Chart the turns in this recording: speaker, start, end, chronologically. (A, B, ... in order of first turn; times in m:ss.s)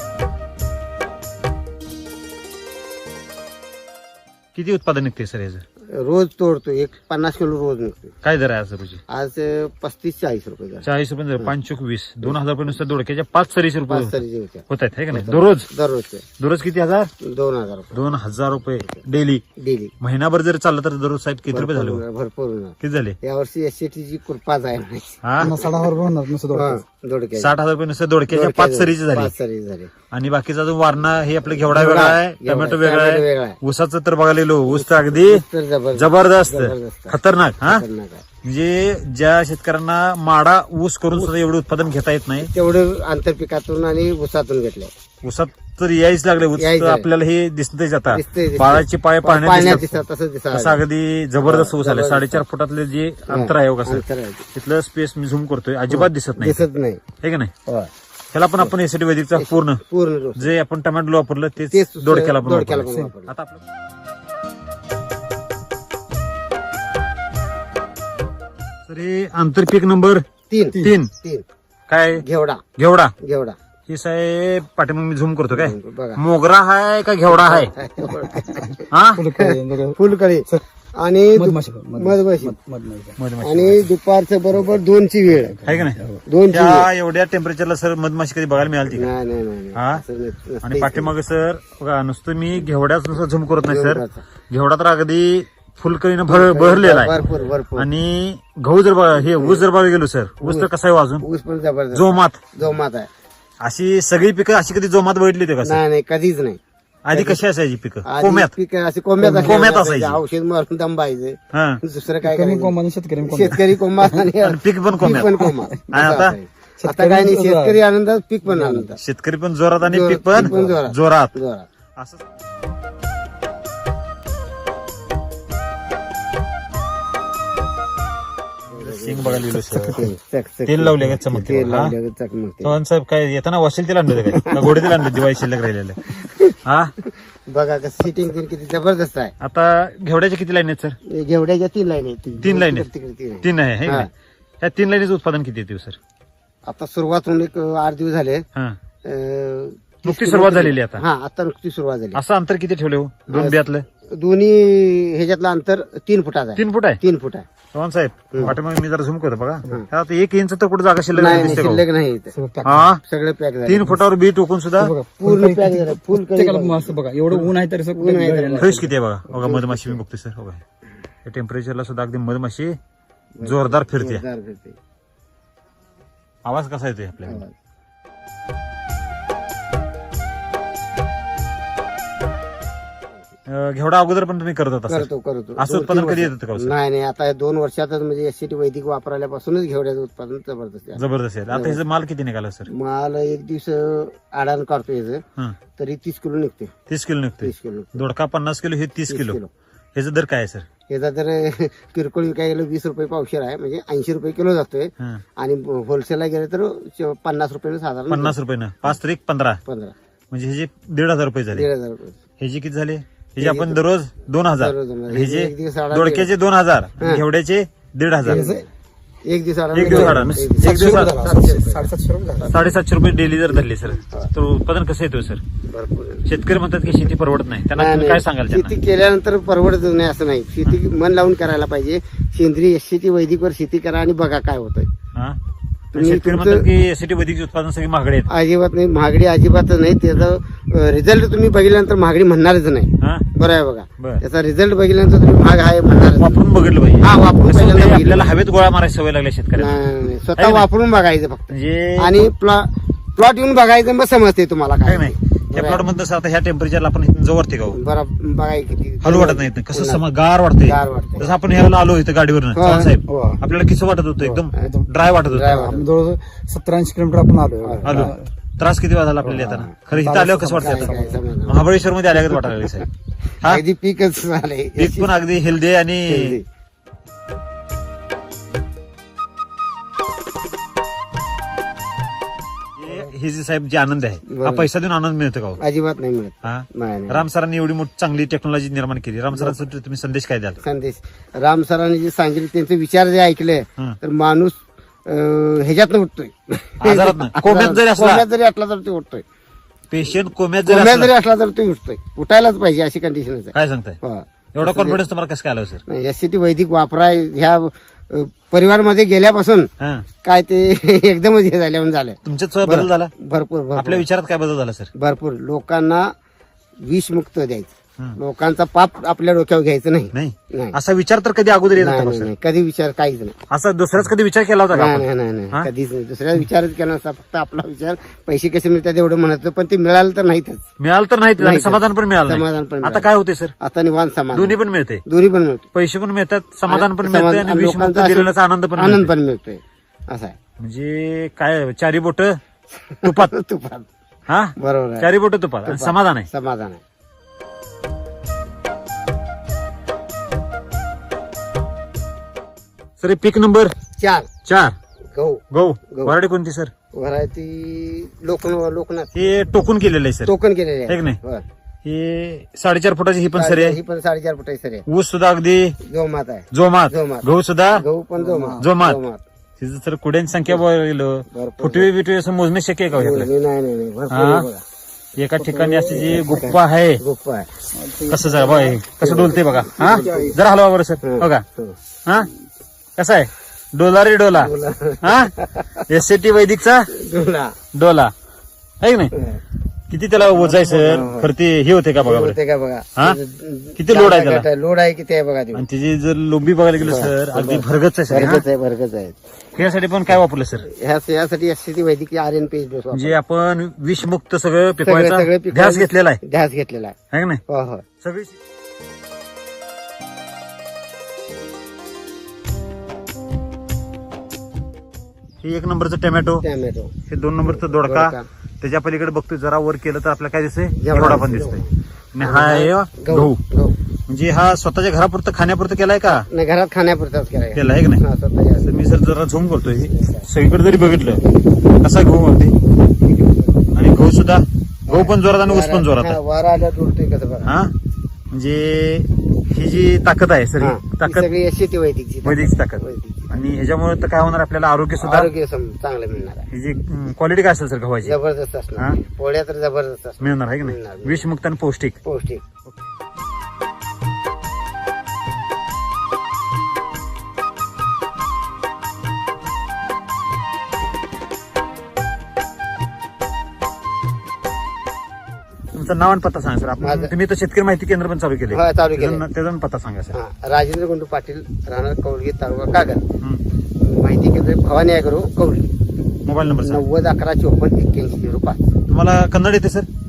0:04.5-0:05.6 A
0:05.9-0:08.1 B
0:08.2-0:09.0 A
0:09.1-0:10.9 B
0:10.8-0:14.2 A
0:13.9-0:16.2 B
0:14.7-0:15.7 A
0:16.4-0:17.1 A
0:17.2-0:18.1 B
0:17.9-0:19.4 A
0:19.6-0:19.9 B
0:20.0-0:22.0 A
0:21.5-0:25.8 B
0:22.8-0:23.2 A
0:25.2-0:25.5 A
0:25.4-0:26.8 C
0:26.5-0:27.5 B
0:27.4-0:29.3 A
0:28.3-0:29.9 B
0:30.1-0:35.4 A
0:31.6-0:33.6 B
0:34.7-0:38.2 B
0:35.9-0:37.8 A
0:38.4-0:42.5 A
0:42.5-0:44.9 B
0:45.2-0:50.0 A
0:46.6-0:47.1 B
0:48.1-0:50.8 B
0:50.5-0:56.6 A
0:51.4-0:52.4 B
0:53.3-0:54.5 B
0:55.9-0:57.0 B
0:57.2-0:57.5 A
0:58.3-0:59.8 A
0:59.4-1:00.5 B
1:00.4-1:03.6 A
1:01.7-1:03.3 B
1:08.9-1:10.2 A
1:10.5-1:11.4 B
1:10.8-1:11.1 A
1:11.9-1:12.2 A
1:12.2-1:12.6 B
1:12.8-1:13.1 A
1:13.2-1:13.6 B
1:13.9-1:17.7 A
1:15.5-1:16.2 B
1:17.3-1:18.8 B
1:18.2-1:20.6 C
1:18.9-1:19.3 A
1:19.4-1:22.5 B
1:21.4-1:23.2 C
1:23.2-1:23.9 A
1:23.4-1:25.6 B
1:25.5-1:26.2 C
1:25.6-1:29.1 A
1:26.2-1:26.9 B
1:28.9-1:31.1 B
1:29.7-1:30.0 A
1:30.6-1:37.1 A
1:33.7-1:34.2 B
1:36.3-1:37.9 B
1:37.8-1:41.2 A
1:39.4-1:39.6 B
1:40.4-1:40.7 B
1:41.2-1:43.1 B
1:41.9-1:42.4 A
1:43.6-1:45.8 A
1:45.6-1:46.6 B
1:47.0-1:48.5 A
1:47.1-1:47.4 B
1:48.0-1:59.0 B
1:49.2-1:49.5 C
1:49.3-1:50.2 A
1:51.5-1:51.8 A
1:52.2-1:54.2 C
1:54.4-1:56.4 A
1:55.0-1:55.8 C
1:56.8-1:57.8 C
1:58.4-1:58.9 C
1:59.0-2:01.3 A
1:59.8-2:01.7 B
2:02.0-2:02.2 A
2:08.7-2:10.1 A
2:08.7-2:12.8 B
2:10.7-2:12.0 A
2:12.6-2:16.9 A
2:14.3-2:15.1 B
2:16.1-2:19.3 B
2:19.4-2:21.0 A
2:21.0-2:24.1 B
2:22.4-2:22.9 A
2:23.4-2:24.1 A
2:24.6-2:26.0 A
2:26.6-2:28.4 B
2:29.0-2:32.2 B
2:30.0-2:31.0 A
2:32.1-2:33.8 A
2:33.3-2:33.6 B
2:34.1-2:37.4 B
2:36.6-2:37.0 A
2:37.7-2:41.8 A
2:41.1-2:42.3 B
2:41.3-2:41.7 C
2:42.3-2:42.9 C
2:42.6-2:43.0 A
2:43.0-2:44.0 B
2:43.6-2:44.9 A
2:44.8-2:48.9 C
2:45.2-2:47.0 B
2:48.0-2:48.8 B
2:48.6-2:50.6 A
2:49.4-2:50.0 B
2:51.2-2:52.8 A
2:53.4-2:54.8 B
2:53.4-2:54.2 A
2:56.4-2:57.4 A
2:57.2-2:57.5 B
3:03.5-3:06.7 A
3:04.9-3:11.8 B
3:11.0-3:12.7 A
3:12.7-3:15.2 B
3:15.8-3:16.7 B
3:16.9-3:19.4 A
3:17.4-3:18.0 B
3:19.1-3:19.5 B
3:19.9-3:20.7 A
3:20.9-3:28.4 B
3:28.1-3:29.6 A
3:29.6-3:29.9 B
3:30.3-3:31.7 A
3:31.5-3:32.2 B
3:32.4-3:38.4 A
3:33.4-3:33.8 B
3:34.6-3:36.3 B
3:38.2-3:38.6 B
3:38.2-3:38.6 C
3:39.2-3:42.7 B
3:39.7-3:41.2 A
3:39.8-3:42.5 C
3:42.5-3:45.4 A
3:45.6-3:46.2 B
3:46.2-3:48.7 A
3:47.7-3:54.9 B
3:55.9-3:58.3 A
3:55.9-3:56.7 B
3:58.3-4:06.4 B
4:03.0-4:03.2 A
4:04.0-4:04.2 A
4:06.2-4:10.6 A
4:07.0-4:08.3 B
4:09.6-4:15.8 B
4:11.5-4:12.2 A
4:14.8-4:17.8 A
4:17.7-4:20.0 B
4:19.0-4:25.7 A
4:20.6-4:21.4 B
4:22.5-4:22.9 B
4:23.1-4:23.4 C
4:24.2-4:24.9 C
4:25.3-4:25.9 B
4:25.4-4:28.2 C
4:27.6-4:28.1 B
4:27.8-4:32.8 A
4:29.2-4:31.2 C
4:29.4-4:29.7 B
4:30.3-4:31.7 B
4:33.4-4:35.1 B
4:34.8-4:36.4 A
4:36.1-4:36.4 B
4:42.8-4:45.6 A
4:44.3-4:44.7 B
4:45.6-4:47.2 B
4:46.4-4:50.6 A
4:50.6-4:59.2 B
4:56.8-4:58.2 A
4:59.9-5:01.1 A
5:00.6-5:05.0 B
5:03.5-5:04.0 A
5:04.5-5:05.8 A
5:05.9-5:09.7 B
5:09.8-5:10.1 A
5:10.2-5:14.0 B
5:12.2-5:13.1 A
5:13.8-5:14.9 A
5:14.9-5:16.1 B
5:16.8-5:20.8 B
5:20.1-5:22.3 A
5:21.8-5:23.4 B
5:23.5-5:25.7 A
5:24.7-5:30.6 B
5:30.8-5:33.5 A
5:31.4-5:33.1 B
5:33.6-5:35.6 B
5:34.3-5:35.0 A
5:35.7-5:39.1 A
5:36.7-5:40.3 B
5:40.6-5:42.4 A
5:42.9-5:43.9 B
5:43.0-5:43.3 A
5:44.3-5:46.3 A
5:44.6-5:45.1 B
5:45.6-5:46.8 B
5:53.0-5:53.8 A
5:53.9-5:54.3 B
5:54.4-5:54.8 A
5:55.1-5:56.1 B
5:55.5-5:56.7 A
5:56.9-5:59.3 B
5:59.1-6:00.3 A
6:00.2-6:01.4 B
6:00.9-6:01.2 A
6:01.8-6:03.8 A
6:03.4-6:04.8 B
6:04.8-6:05.8 A
6:05.8-6:09.2 B
6:06.5-6:07.8 A
6:08.2-6:08.6 C
6:08.6-6:09.0 A
6:09.6-6:13.3 A
6:11.3-6:11.9 B
6:12.9-6:14.6 B
6:14.1-6:14.5 A
6:15.2-6:17.0 A
6:15.5-6:16.5 C
6:15.9-6:17.5 B
6:17.7-6:18.8 C
6:18.1-6:21.4 A
6:19.0-6:20.3 B
6:19.6-6:20.4 C
6:21.0-6:21.8 B
6:23.0-6:25.3 A
6:24.3-6:25.8 B
6:25.8-6:26.9 A
6:26.9-6:27.6 B
6:27.7-6:28.1 A
6:28.8-6:29.1 A
6:29.1-6:29.4 B
6:29.9-6:32.4 A
6:30.2-6:31.3 B
6:32.0-6:35.6 B
6:33.8-6:34.5 A
6:35.5-6:38.4 A
6:36.8-6:39.2 B
6:39.5-6:40.7 A
6:40.6-6:43.2 B
6:42.9-6:46.2 A
6:44.8-6:47.0 B
6:47.1-6:47.4 A
6:47.5-6:47.8 B
6:48.0-6:48.4 A
6:55.4-6:56.4 A
6:56.4-6:56.9 B
6:57.1-7:01.6 A
6:57.4-6:58.2 B
7:00.8-7:03.8 B
7:02.1-7:03.4 A
7:04.1-7:06.3 A
7:06.1-7:08.7 B
7:07.5-7:08.0 A
7:08.6-7:11.2 A
7:09.8-7:10.3 B
7:11.8-7:12.6 A
7:13.0-7:13.6 B
7:13.7-7:16.2 A
7:14.9-7:17.5 B
7:17.4-7:17.7 A
7:18.3-7:21.3 A
7:20.6-7:23.3 B
7:22.2-7:25.3 A
7:25.0-7:26.5 B
7:26.5-7:28.2 A
7:28.0-7:31.2 B
7:30.2-7:32.0 A
7:32.0-7:32.4 B
7:45.7-7:50.2 A
7:46.8-7:47.1 B
7:48.5-7:49.2 B
7:50.1-7:53.0 B
7:53.8-7:55.7 B
7:56.2-7:56.8 A
7:56.6-7:58.7 B
7:58.9-7:59.9 A